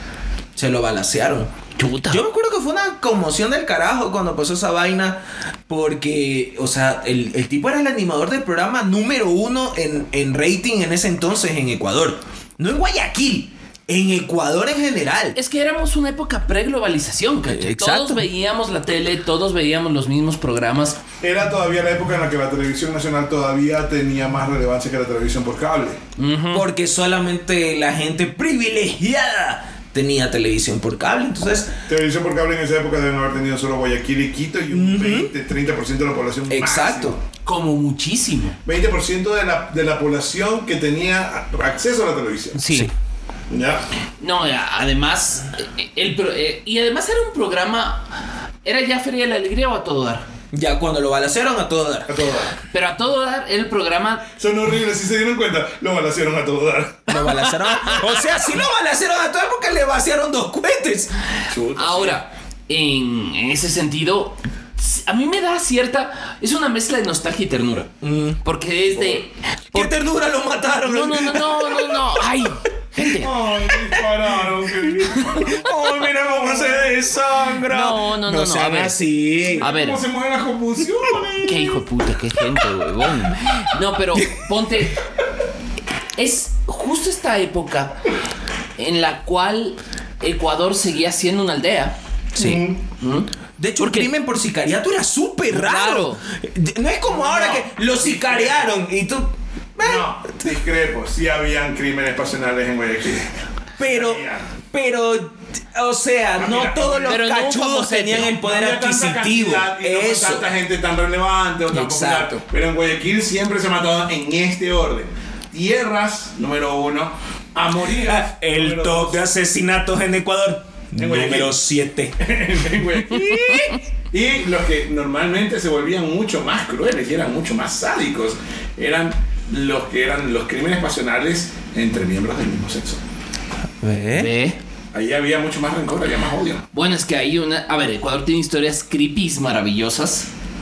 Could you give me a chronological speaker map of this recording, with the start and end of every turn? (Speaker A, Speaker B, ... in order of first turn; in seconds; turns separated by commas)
Speaker A: 0.6-1.5, Speaker B: 1.8-2.2, Speaker A: 2.1-15.4, Speaker B: 15.4-21.0, Speaker A: 17.5-18.3, Speaker C: 21.2-26.0, Speaker B: 26.2-26.6, Speaker A: 26.5-31.7, Speaker C: 31.9-37.2, Speaker A: 34.7-35.3, Speaker A: 36.5-37.2, Speaker B: 37.5-38.6, Speaker C: 38.6-42.6, Speaker B: 42.6-42.9, Speaker C: 43.5-43.9, Speaker B: 44.2-50.2, Speaker A: 50.5-52.1, Speaker C: 52.1-52.5, Speaker B: 52.7-54.2, Speaker C: 54.4-57.4, Speaker A: 57.1-61.1, Speaker B: 57.6-58.0, Speaker C: 61.5-62.2, Speaker B: 61.8-70.0, Speaker A: 68.0-68.4, Speaker A: 69.7-72.3, Speaker B: 70.8-73.3, Speaker C: 73.2-77.0, Speaker A: 73.6-74.0, Speaker A: 75.1-79.6, Speaker B: 77.7-79.0, Speaker C: 79.6-81.8, Speaker B: 79.6-80.0, Speaker B: 81.4-85.0, Speaker A: 84.1-84.4, Speaker B: 86.2-88.0, Speaker B: 88.8-94.1, Speaker A: 92.3-92.7, Speaker C: 92.4-92.8, Speaker A: 93.6-100.4, Speaker B: 95.5-96.2, Speaker C: 97.1-98.8, Speaker C: 99.8-104.5, Speaker A: 103.8-110.5, Speaker C: 106.4-107.2, Speaker B: 107.1-108.3, Speaker C: 108.3-119.3, Speaker A: 111.7-112.4, Speaker A: 117.9-122.2, Speaker C: 121.0-121.6, Speaker C: 122.2-133.0, Speaker B: 123.1-123.8, Speaker A: 133.8-134.3, Speaker B: 134.1-134.6, Speaker C: 134.9-136.7, Speaker B: 136.7-140.3